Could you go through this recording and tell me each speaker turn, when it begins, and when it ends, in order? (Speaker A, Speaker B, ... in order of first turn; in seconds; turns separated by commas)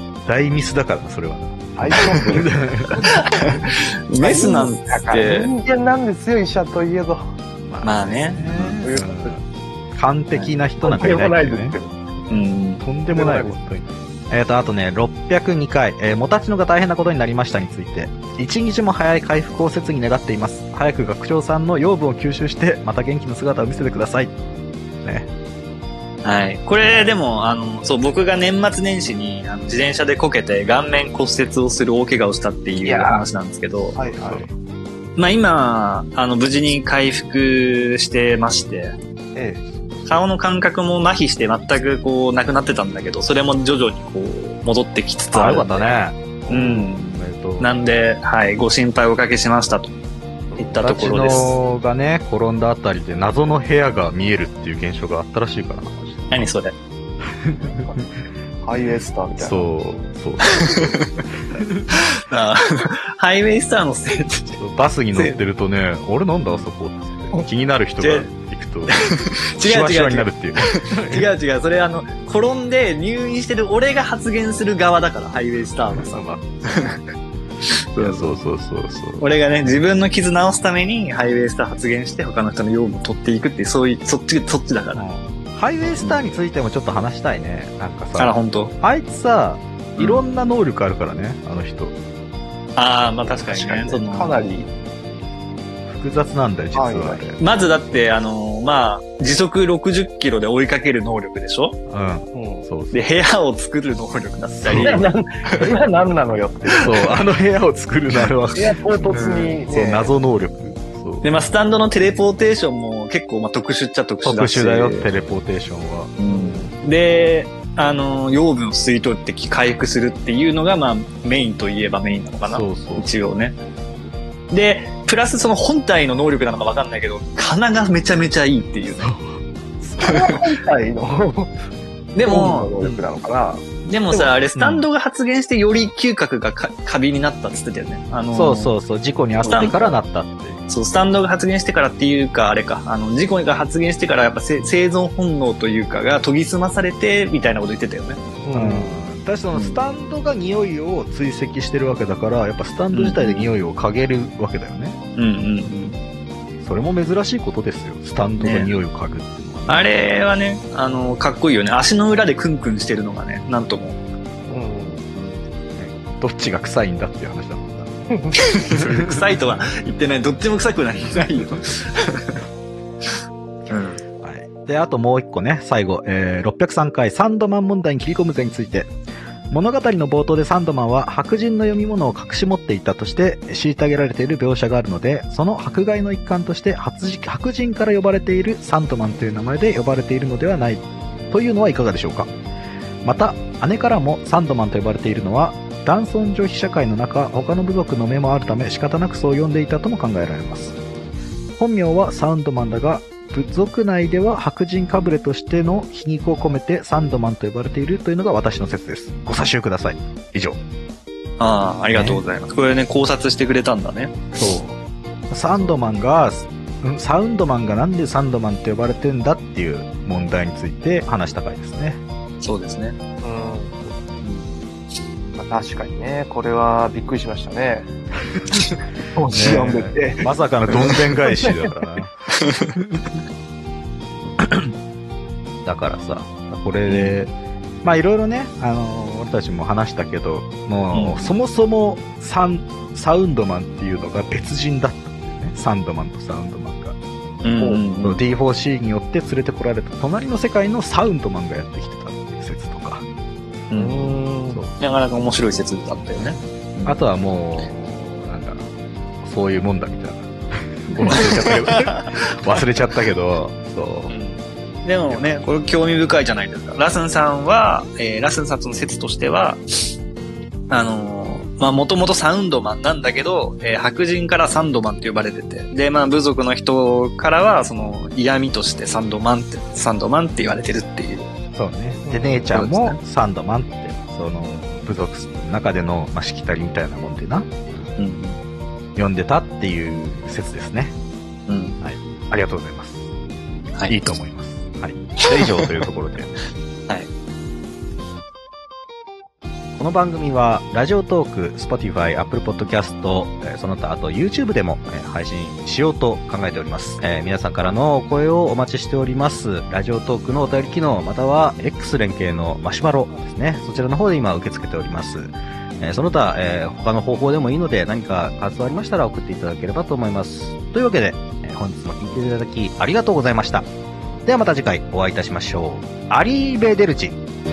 Speaker A: 0.2-3.0, Speaker B: 1.8-2.6, Speaker C: 2.0-2.4, Speaker C: 3.0-3.6, Speaker C: 4.1-5.5, Speaker B: 4.2-7.3, Speaker A: 7.7-11.8, Speaker C: 7.8-8.4, Speaker B: 8.5-9.3, Speaker B: 10.8-11.9, Speaker C: 12.3-12.8, Speaker A: 12.8-24.3, Speaker B: 13.1-13.6, Speaker A: 25.0-25.3, Speaker C: 26.2-34.0, Speaker A: 26.8-27.1, Speaker B: 32.8-33.2, Speaker B: 34.0-34.5, Speaker A: 34.0-34.5, Speaker C: 35.2-39.0, Speaker B: 39.3-39.6, Speaker A: 39.6-40.1, Speaker C: 40.0-49.9, Speaker A: 45.3-47.7, Speaker C: 50.6-51.6, Speaker A: 50.7-56.5, Speaker C: 56.3-56.7, Speaker A: 57.4-57.7, Speaker B: 57.6-58.0, Speaker B: 58.6-59.7, Speaker A: 59.4-61.0, Speaker A: 61.5-61.9, Speaker C: 62.3-64.6, Speaker A: 64.6-69.0, Speaker C: 65.1-65.4, Speaker C: 68.0-68.3, Speaker C: 68.9-70.4, Speaker A: 69.6-71.3, Speaker C: 71.0-77.0, Speaker A: 75.9-76.4, Speaker C: 77.9-78.3, Speaker A: 78.0-79.8, Speaker C: 79.2-85.0, Speaker A: 84.9-92.0, Speaker C: 86.0-86.4, Speaker C: 88.1-88.7, Speaker C: 90.0-90.3, Speaker C: 92.8-94.5, Speaker B: 93.5-94.7, Speaker A: 95.9-97.4, Speaker B: 96.7-97.2, Speaker C: 97.4-101.8, Speaker A: 101.9-103.1, Speaker B: 102.3-102.7, Speaker C: 102.9-105.1, Speaker A: 104.5-105.1, Speaker B: 104.8-106.8, Speaker A: 106.8-111.3, Speaker B: 108.5-110.1, Speaker C: 109.0-109.6, Speaker C: 111.2-115.1, Speaker A: 114.2-116.7, Speaker C: 116.2-123.5, Speaker A: 122.4-123.1, Speaker C: 124.5-129.1, Speaker A: 128.9-130.2, Speaker C: 130.0-130.4, Speaker B: 130.2-131.5, Speaker C: 132.1-132.7, Speaker B: 132.2-134.3, Speaker C: 133.8-138.7, Speaker A: 134.6-134.9, Speaker A: 138.3-140.6, Speaker C: 139.4-140.0, Speaker C: 140.7-148.2, Speaker B: 148.4-148.9, Speaker A: 148.5-154.9, Speaker C: 149.5-149.8, Speaker C: 152.9-153.6, Speaker C: 155.2-155.9, Speaker A: 156.6-160.1, Speaker C: 158.4-158.7, Speaker C: 159.7-164.0, Speaker B: 164.5-165.0, Speaker C: 165.1-165.4, Speaker A: 165.7-167.9, Speaker C: 168.5-172.4, Speaker C: 173.7-174.0, Speaker A: 174.2-178.9, Speaker A: 179.5-192.3, Speaker A: 193.0-200.8, Speaker A: 201.6-210.6, Speaker C: 211.4-214.2, Speaker A: 211.9-212.2, Speaker A: 214.3-214.8, Speaker A: 215.3-222.0, Speaker C: 222.4-222.9, Speaker B: 223.2-223.7, Speaker C: 224.2-224.6, Speaker B: 225.4-227.9, Speaker B: 229.2-230.2, Speaker A: 229.3-232.2, Speaker A: 234.4-234.7, Speaker A: 235.6-237.3, Speaker C: 236.8-237.2, Speaker A: 237.8-246.9, Speaker C: 240.9-241.3, Speaker C: 247.4-248.2, Speaker A: 248.0-253.0, Speaker C: 253.7-254.2, Speaker B: 253.8-254.6, Speaker C: 254.8-257.0, Speaker A: 256.1-258.7, Speaker A: 259.2-264.1, Speaker C: 261.6-262.1, Speaker C: 264.1-269.6, Speaker A: 265.1-265.4, Speaker C: 270.7-281.3, Speaker A: 281.5-287.5, Speaker B: 282.0-282.4, Speaker C: 282.5-283.0, Speaker C: 288.0-288.4, Speaker A: 288.9-290.9, Speaker C: 291.5-291.8, Speaker A: 291.8-293.1, Speaker C: 293.7-294.1, Speaker A: 293.9-296.4, Speaker C: 295.2-295.7, Speaker A: 299.8-323.6, Speaker A: 324.2-327.1